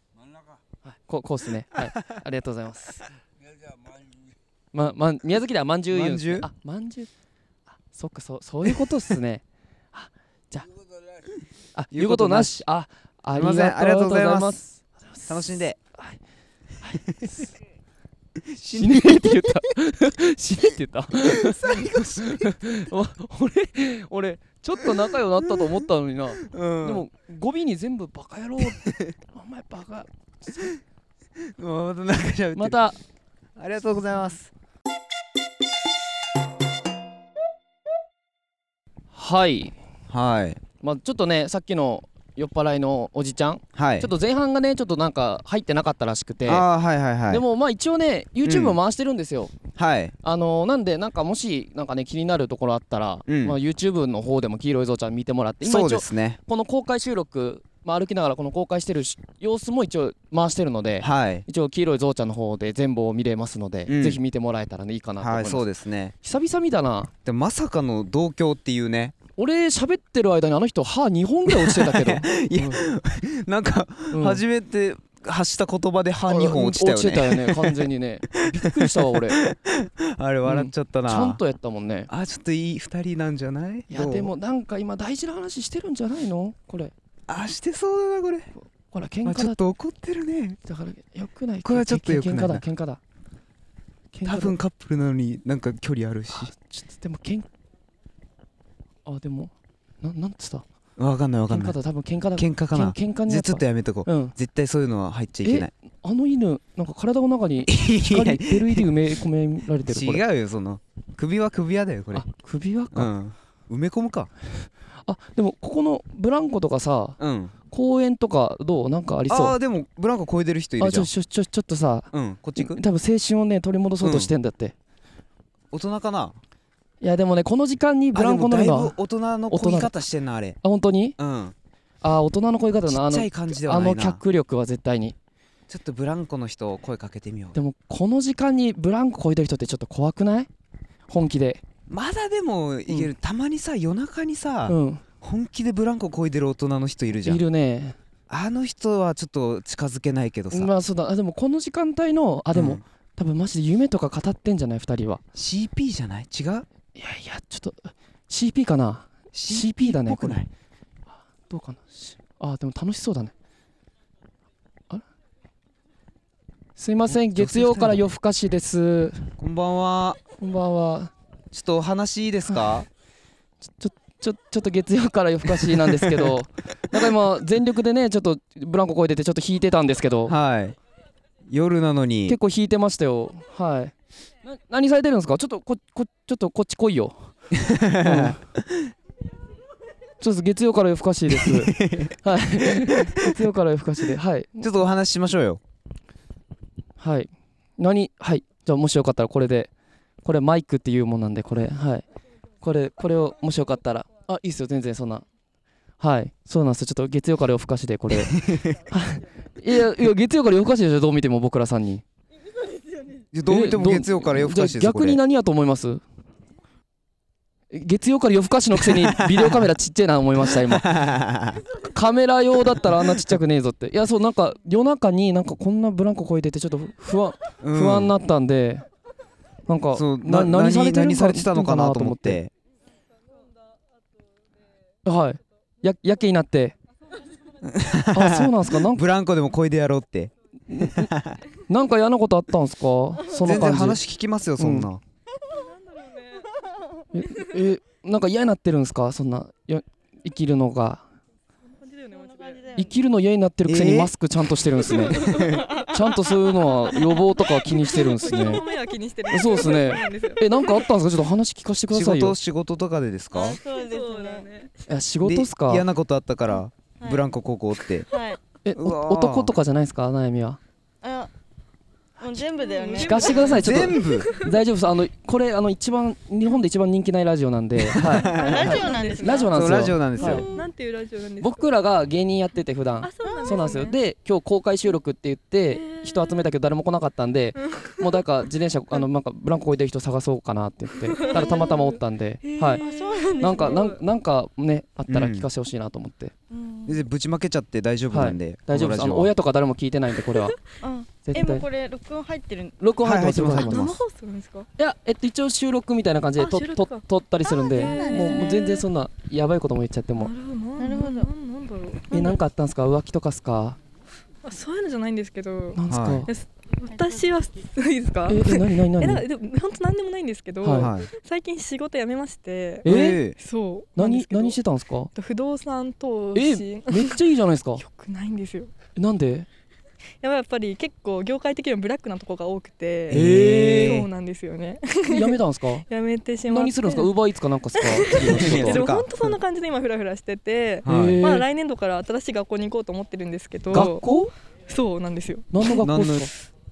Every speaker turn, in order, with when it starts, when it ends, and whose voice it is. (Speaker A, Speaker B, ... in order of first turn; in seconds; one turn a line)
Speaker A: 0.1-0.6
Speaker B: 0.8-3.0
Speaker A: 3.4-4.3
Speaker B: 4.7-7.1
Speaker C: 5.9-6.5
Speaker B: 7.7-10.7
Speaker A: 10.7-11.3
Speaker B: 11.8-16.2
Speaker C: 11.9-12.7
Speaker C: 13.3-14.6
Speaker C: 15.3-15.8
Speaker B: 16.8-17.5
Speaker C: 18.4-19.6
Speaker B: 18.8-30.8
Speaker C: 21.2-22.8
Speaker C: 25.4-25.7
Speaker C: 26.4-27.1
Speaker C: 28.6-29.1
Speaker C: 31.4-32.8
Speaker B: 32.5-33.0
Speaker C: 33.6-34.5
Speaker B: 39.1-39.7
Speaker C: 40.1-40.6
Speaker B: 40.8-46.7
Speaker C: 43.8-44.1
Speaker C: 46.5-47.4
Speaker B: 47.3-49.6
Speaker C: 48.4-48.8
Speaker C: 49.8-50.1
Speaker B: 50.2-65.7
Speaker C: 53.3-53.6
Speaker C: 55.6-56.4
Speaker C: 61.0-61.5
Speaker C: 63.9-64.2
Speaker C: 65.2-66.1
Speaker B: 66.2-67.1
Speaker C: 67.2-69.2
Speaker B: 69.4-72.8
Speaker C: 71.5-77.9
Speaker B: 74.1-74.4
Speaker B: 76.3-79.4
Speaker C: 78.5-81.4
Speaker B: 80.5-82.1
Speaker C: 82.1-84.3
Speaker B: 83.9-86.9
Speaker C: 87.3-88.5
Speaker B: 88.9-89.6
Speaker C: 89.2-90.6
Speaker B: 90.7-93.0
Speaker C: 91.6-92.6
Speaker B: 94.1-94.6
Speaker C: 94.2-96.5
Speaker B: 96.4-97.5
Speaker B: 99.0-100.7
Speaker C: 101.0-101.8
Speaker B: 101.5-104.3
Speaker C: 102.4-105.7
Speaker B: 105.4-110.2
Speaker C: 107.7-108.9
Speaker C: 109.8-112.3
Speaker B: 112.1-113.1
Speaker C: 112.9-114.3
Speaker B: 115.1-117.2
Speaker C: 117.2-117.5
Speaker B: 117.7-119.6
Speaker C: 119.3-121.1
Speaker B: 120.8-124.7
Speaker C: 122.1-122.8
Speaker C: 124.0-124.3
Speaker C: 125.7-126.4
Speaker B: 127.0-128.9
Speaker C: 128.1-130.6
Speaker B: 129.5-129.9
Speaker B: 130.6-131.2
Speaker C: 131.2-131.6
Speaker B: 132.0-135.2
Speaker C: 132.9-134.2
Speaker C: 135.7-137.6
Speaker B: 137.6-140.5
Speaker B: 141.1-141.6
Speaker C: 141.9-147.4
Speaker B: 144.7-145.0
Speaker B: 147.2-148.0
Speaker C: 148.3-150.7
Speaker B: 150.5-155.2
Speaker C: 152.5-152.8
Speaker C: 155.3-156.7
Speaker B: 156.9-160.5
Speaker C: 159.3-160.5
Speaker B: 161.5-163.3
Speaker B: 166.8-169.3
Speaker C: 167.1-168.0
Speaker C: 169.4-170.2
Speaker B: 170.4-171.1
Speaker C: 171.5-172.9
Speaker B: 172.5-172.8
Speaker B: 173.7-180.4
Speaker C: 175.5-176.4
Speaker C: 180.3-180.8
Speaker C: 181.5-182.4
Speaker B: 182.3-187.2
Speaker C: 187.5-188.9
Speaker B: 188.0-188.4
Speaker B: 190.2-194.7
Speaker C: 191.3-193.4
Speaker C: 194.6-195.6
Speaker B: 197.0-199.7
Speaker B: 200.2-202.1
Speaker B: 202.6-205.2
Speaker B: 206.0-212.0
Speaker C: 208.1-208.8
Speaker C: 213.3-215.2
Speaker B: 213.5-216.0
Speaker B: 217.7-220.9
Speaker C: 218.8-219.7
Speaker C: 220.4-221.6
Speaker B: 221.8-228.8
Speaker C: 223.0-223.3
Speaker C: 227.6-228.1
Speaker B: 229.7-232.4
Speaker C: 229.9-232.5
Speaker B: 235.1-236.8
Speaker C: 237.6-241.4
Speaker B: 238.1-239.0
Speaker B: 240.7-241.1
Speaker B: 241.7-244.0
Speaker C: 243.4-245.0
Speaker B: 244.6-244.9
Speaker D: 245.6-246.5
Speaker B: 247.1-251.1
Speaker D: 251.8-252.7
Speaker E: 252.1-252.9
Speaker B: 252.8-255.3
Speaker C: 253.7-254.1
Speaker D: 254.9-255.9
Speaker C: 255.1-255.7
Speaker E: 255.3-257.1
Speaker B: 255.9-258.6
Speaker D: 257.9-260.9
Speaker B: 259.3-262.4
Speaker C: 261.9-263.6
Speaker E: 263.3-264.5
Speaker D: 263.6-264.9
Speaker B: 264.9-265.9
Speaker C: 265.2-268.1
Speaker E: 267.0-267.3
Speaker E: 268.1-268.4
Speaker B: 268.6-270.6
Speaker C: 268.8-269.5
Speaker E: 271.0-271.3
Speaker E: 272.2-273.8
Speaker D: 272.4-274.5
Speaker B: 272.9-280.5
Speaker C: 273.6-274.3
Speaker C: 277.8-278.6
Speaker D: 278.0-279.6
Speaker E: 278.3-279.6
Speaker C: 279.5-280.5
Speaker D: 280.2-281.7
Speaker E: 280.2-280.6
Speaker B: 281.4-292.8
Speaker D: 283.0-284.0
Speaker E: 283.2-283.8
Speaker D: 285.7-286.4
Speaker D: 287.6-288.1
Speaker D: 291.0-294.0
Speaker E: 291.2-291.7
Speaker E: 292.7-293.9
Speaker B: 293.4-296.3
Speaker C: 295.1-295.5
Speaker E: 296.5-297.0
Speaker C: 296.9-299.3
Speaker B: 298.1-300.6
Speaker D: 300.3-300.6
Speaker E: 300.8-302.8
Speaker B: 301.2-301.6
Speaker B: 302.8-303.9
Speaker C: 303.0-304.0
Speaker D: 303.6-304.7
Speaker B: 304.8-310.3
Speaker D: 306.4-308.9
Speaker E: 307.5-308.5
Speaker D: 310.2-312.4
Speaker E: 310.8-311.3
Speaker B: 312.1-313.8
Speaker D: 314.4-324.6
Speaker B: 315.8-316.3
Speaker C: 315.9-316.2
Speaker B: 318.3-319.2
Speaker B: 320.6-320.9
Speaker C: 320.7-321.1
Speaker B: 322.9-323.2
Speaker C: 322.9-323.4
Speaker B: 324.0-325.1
Speaker D: 325.1-327.2
Speaker B: 326.4-327.8
Speaker D: 327.8-328.7
Speaker B: 329.0-329.5
Speaker D: 330.2-337.1
Speaker C: 333.1-334.1
Speaker B: 333.1-334.1
Speaker B: 335.1-335.9
Speaker B: 336.5-338.8
Speaker D: 337.8-344.1
Speaker C: 338.3-339.3
Speaker C: 340.9-341.2
Speaker B: 340.9-341.5
Speaker C: 343.7-344.3
Speaker B: 343.7-344.3
Speaker D: 344.7-345.8
Speaker B: 345.5-346.3
Speaker C: 345.8-346.3